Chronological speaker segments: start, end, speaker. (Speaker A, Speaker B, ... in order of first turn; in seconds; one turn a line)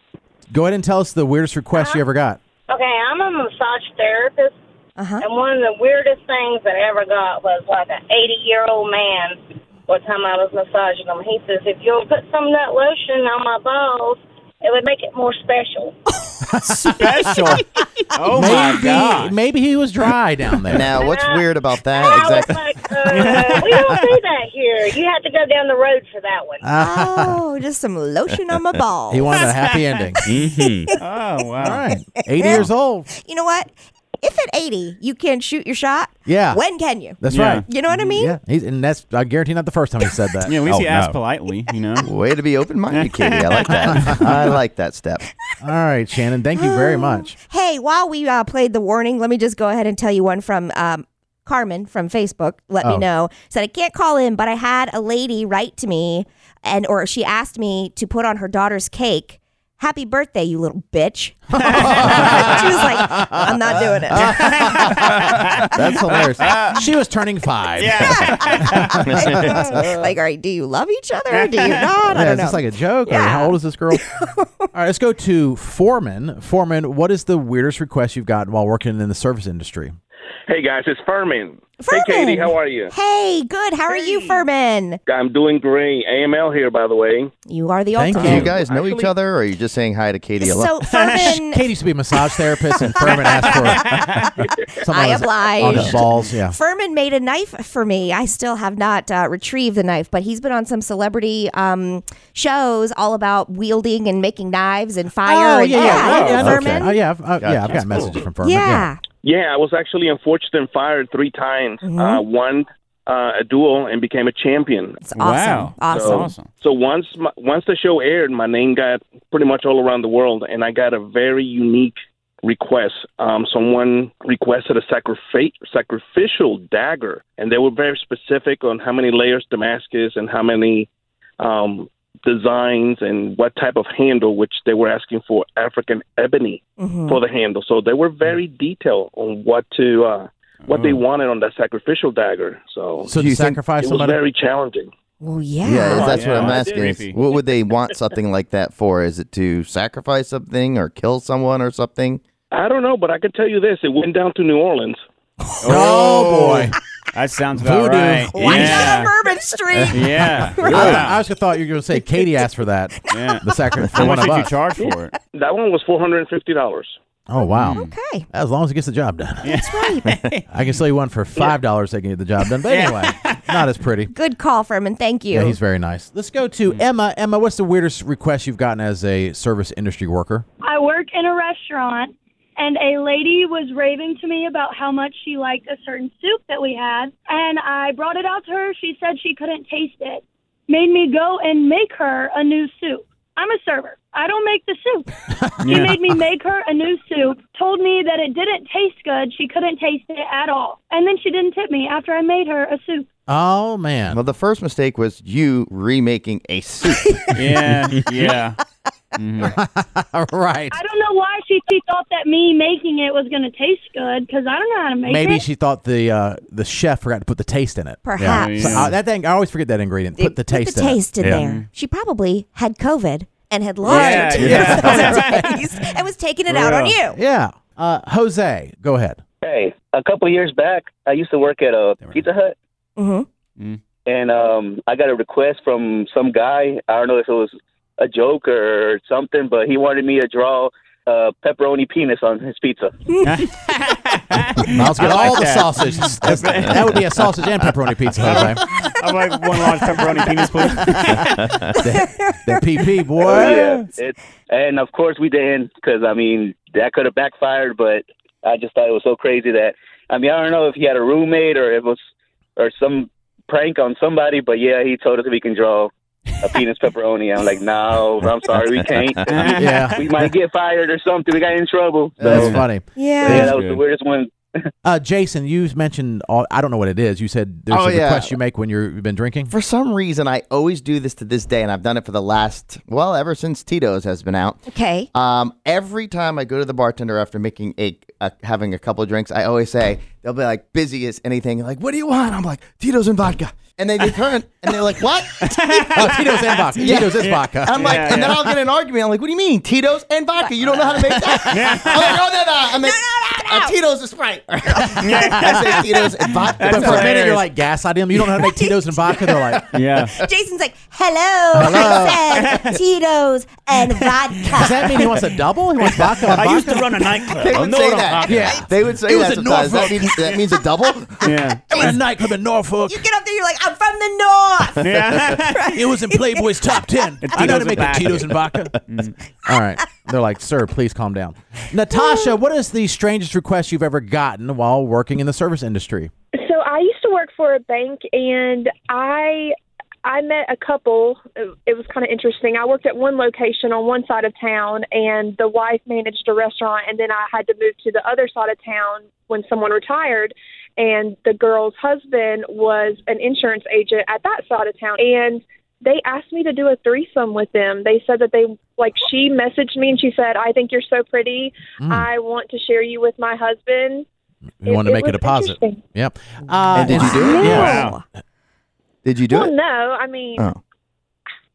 Speaker A: 0.5-2.4
Speaker B: 1.7-2.0
Speaker B: 2.7-4.5
Speaker C: 5.0-5.2
Speaker B: 5.2-15.9
Speaker A: 16.5-17.6
Speaker D: 16.7-19.3
Speaker A: 18.2-20.9
Speaker E: 20.7-22.7
Speaker B: 21.0-26.7
Speaker D: 23.1-23.6
Speaker A: 23.8-24.2
Speaker A: 26.6-27.4
Speaker C: 26.8-29.4
Speaker A: 29.1-30.3
Speaker C: 30.2-30.9
Speaker D: 30.3-31.9
Speaker A: 31.6-33.1
Speaker C: 33.2-38.4
Speaker A: 36.2-36.6
Speaker A: 37.2-41.2
Speaker D: 37.2-37.6
Speaker D: 40.5-42.1
Speaker E: 42.0-45.2
Speaker D: 42.9-44.1
Speaker A: 43.8-44.2
Speaker A: 45.6-47.3
Speaker C: 46.6-64.7
Speaker A: 61.5-63.5
Speaker D: 61.6-61.9
Speaker A: 64.1-69.8
Speaker D: 64.4-66.8
Speaker D: 67.8-68.9
Speaker C: 68.0-74.5
Speaker E: 69.1-69.8
Speaker D: 71.3-71.9
Speaker A: 72.1-74.0
Speaker A: 74.7-80.0
Speaker F: 80.5-82.9
Speaker C: 81.8-85.0
Speaker F: 83.9-84.4
Speaker F: 85.1-87.3
Speaker C: 87.5-88.5
Speaker A: 87.9-88.5
Speaker F: 88.2-89.1
Speaker E: 88.2-90.7
Speaker C: 90.4-91.6
Speaker D: 90.9-91.2
Speaker A: 91.2-94.1
Speaker C: 92.9-107.0
Speaker A: 94.7-96.6
Speaker E: 95.6-96.0
Speaker A: 105.2-108.9
Speaker D: 105.8-106.4
Speaker E: 106.3-106.8
Speaker E: 107.4-108.2
Speaker C: 108.4-109.0
Speaker F: 109.2-115.0
Speaker C: 111.8-112.2
Speaker C: 115.0-116.3
Speaker D: 115.2-116.5
Speaker F: 115.9-130.9
Speaker F: 131.4-143.1
Speaker C: 136.8-137.2
Speaker D: 140.6-141.0
Speaker A: 143.1-144.2
Speaker E: 143.1-143.6
Speaker F: 143.8-144.9
Speaker C: 145.2-146.2
Speaker E: 145.6-152.2
Speaker F: 145.9-146.9
Speaker D: 146.2-147.2
Speaker F: 152.5-155.0
Speaker D: 155.6-159.1
Speaker C: 155.6-156.6
Speaker A: 155.6-156.8
Speaker A: 157.5-158.9
Speaker C: 158.3-161.2
Speaker A: 159.7-164.6
Speaker D: 159.9-161.2
Speaker C: 161.9-162.3
Speaker D: 163.1-163.4
Speaker D: 163.9-165.2
Speaker F: 164.8-166.9
Speaker A: 167.3-169.6
Speaker D: 167.6-167.9
Speaker C: 167.7-168.3
Speaker D: 169.4-170.5
Speaker C: 169.5-170.1
Speaker A: 170.5-174.1
Speaker D: 172.7-173.6
Speaker C: 174.1-175.6
Speaker A: 175.3-180.4
Speaker G: 180.6-203.1
Speaker D: 195.7-195.9
Speaker A: 203.3-204.2
Speaker E: 204.1-207.3
Speaker D: 207.3-208.6
Speaker D: 209.2-209.5
Speaker A: 209.4-210.8
Speaker G: 210.7-215.4
Speaker A: 215.0-221.4
Speaker C: 218.0-218.9
Speaker D: 218.3-218.9
Speaker C: 220.2-227.2
Speaker D: 221.4-221.7
Speaker D: 223.8-225.4
Speaker A: 224.3-225.5
Speaker D: 226.5-227.0
Speaker A: 227.1-229.2
Speaker H: 229.4-232.5
Speaker C: 233.0-233.3
Speaker H: 234.1-242.9
Speaker D: 243.2-247.2
Speaker A: 244.7-248.6
Speaker D: 248.2-251.4
Speaker A: 251.8-253.7
Speaker H: 253.2-262.0
Speaker H: 262.6-272.5
Speaker E: 268.9-269.4
Speaker D: 269.3-270.1
Speaker A: 269.5-270.0
Speaker E: 272.2-272.6
Speaker A: 272.2-273.6
Speaker D: 272.3-272.6
Speaker C: 272.9-273.5
Speaker H: 273.2-274.3
Speaker D: 273.4-273.8
Speaker A: 274.8-279.5
Speaker E: 277.7-278.3
Speaker E: 279.5-295.8
Speaker C: 284.7-285.1
Speaker D: 295.4-298.4
Speaker A: 295.9-298.0
Speaker E: 296.8-307.2
Speaker D: 301.5-302.2
Speaker C: 302.7-303.8
Speaker D: 305.0-305.9
Speaker D: 306.5-307.4
Speaker A: 306.6-309.8
Speaker C: 308.5-315.0
Speaker D: 309.7-310.1
Speaker A: 311.5-312.2
Speaker D: 312.3-312.7
Speaker A: 314.5-317.0
Speaker D: 315.9-318.5
Speaker E: 317.3-321.4
Speaker A: 318.2-320.3
Speaker D: 321.2-321.9
Speaker A: 321.7-323.0
Speaker C: 322.9-326.8
Speaker D: 324.8-325.7
Speaker A: 325.7-328.8
Speaker D: 327.2-328.4
Speaker D: 328.9-329.1
Speaker A: 329.4-336.1
Speaker I: 336.4-364.1
Speaker A: 361.8-362.1
Speaker A: 364.6-367.9
Speaker I: 364.6-365.8
Speaker E: 366.7-367.6
Speaker C: 366.9-368.0
Speaker D: 367.5-368.0
Speaker E: 369.0-369.5
Speaker I: 369.3-370.5